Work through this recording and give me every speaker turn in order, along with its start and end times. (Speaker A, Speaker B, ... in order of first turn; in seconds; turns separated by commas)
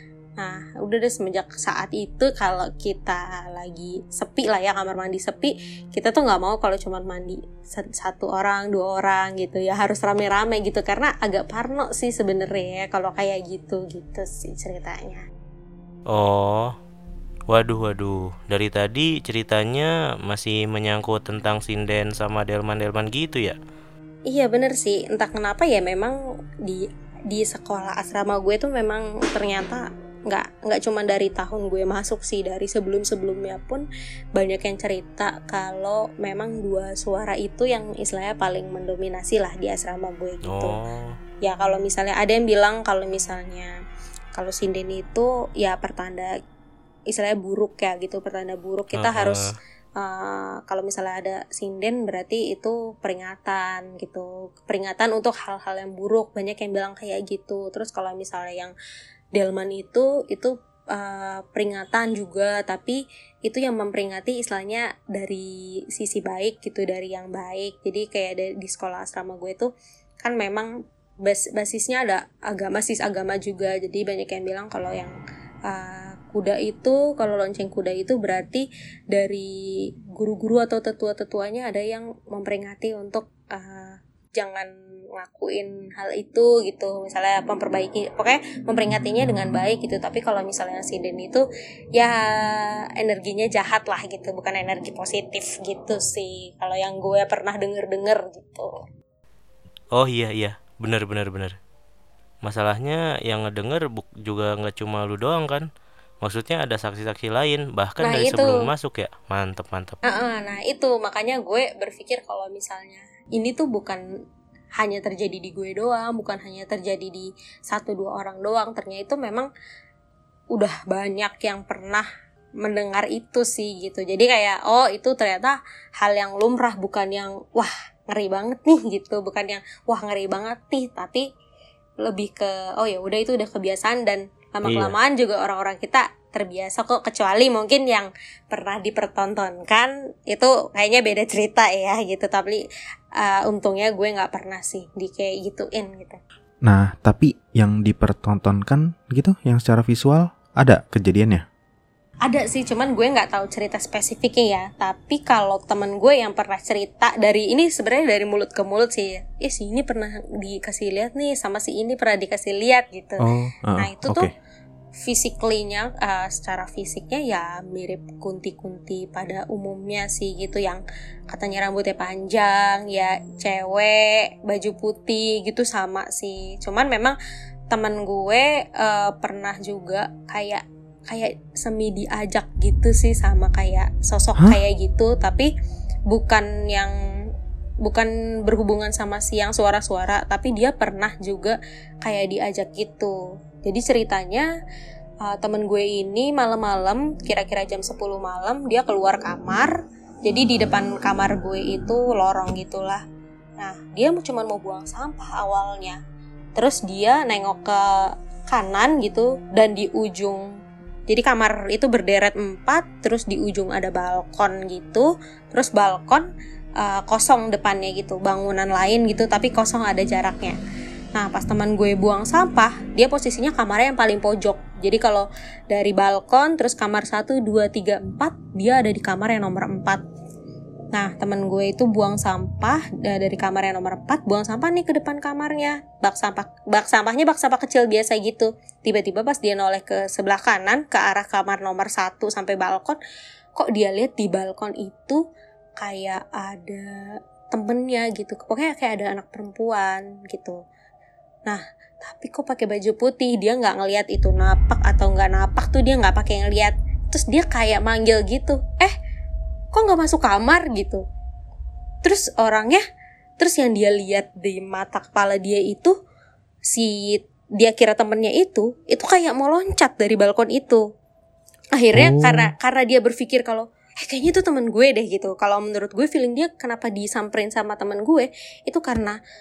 Speaker A: 0.4-15.2, Speaker B: 16.1-16.7, Speaker B: 17.5-23.6, Speaker A: 24.3-40.8, Speaker B: 40.5-41.2, Speaker A: 41.4-43.7, Speaker A: 44.3-46.3, Speaker A: 47.1-49.4, Speaker B: 48.9-49.5, Speaker A: 50.0-58.7, Speaker A: 59.3-69.7, Speaker A: 70.2-70.7, Speaker A: 71.2-75.2, Speaker A: 75.7-79.6, Speaker A: 80.1-91.4, Speaker A: 92.0-98.7, Speaker B: 99.9-101.6, Speaker B: 102.4-105.7, Speaker B: 106.2-110.0, Speaker A: 108.0-108.7, Speaker A: 110.0-114.0, Speaker A: 114.8-119.5, Speaker A: 120.5-122.1, Speaker A: 122.6-131.3, Speaker A: 132.0-142.6, Speaker B: 134.7-134.9, Speaker A: 143.2-146.2, Speaker C: 146.6-151.4, Speaker A: 152.2-164.3, Speaker C: 163.2-164.3, Speaker A: 165.0-177.2, Speaker A: 177.7-185.5, Speaker A: 186.1-187.3, Speaker A: 187.8-194.5, Speaker A: 195.2-203.0, Speaker A: 203.6-206.0, Speaker A: 206.6-210.5, Speaker A: 211.1-216.3, Speaker A: 216.8-220.6, Speaker A: 221.1-230.0, Speaker A: 230.9-243.0, Speaker A: 243.5-245.2, Speaker A: 245.8-250.6, Speaker A: 251.5-258.9, Speaker A: 259.7-261.0, Speaker A: 262.0-262.8, Speaker A: 263.4-265.9, Speaker A: 266.7-270.8, Speaker A: 271.7-279.2, Speaker C: 271.9-272.5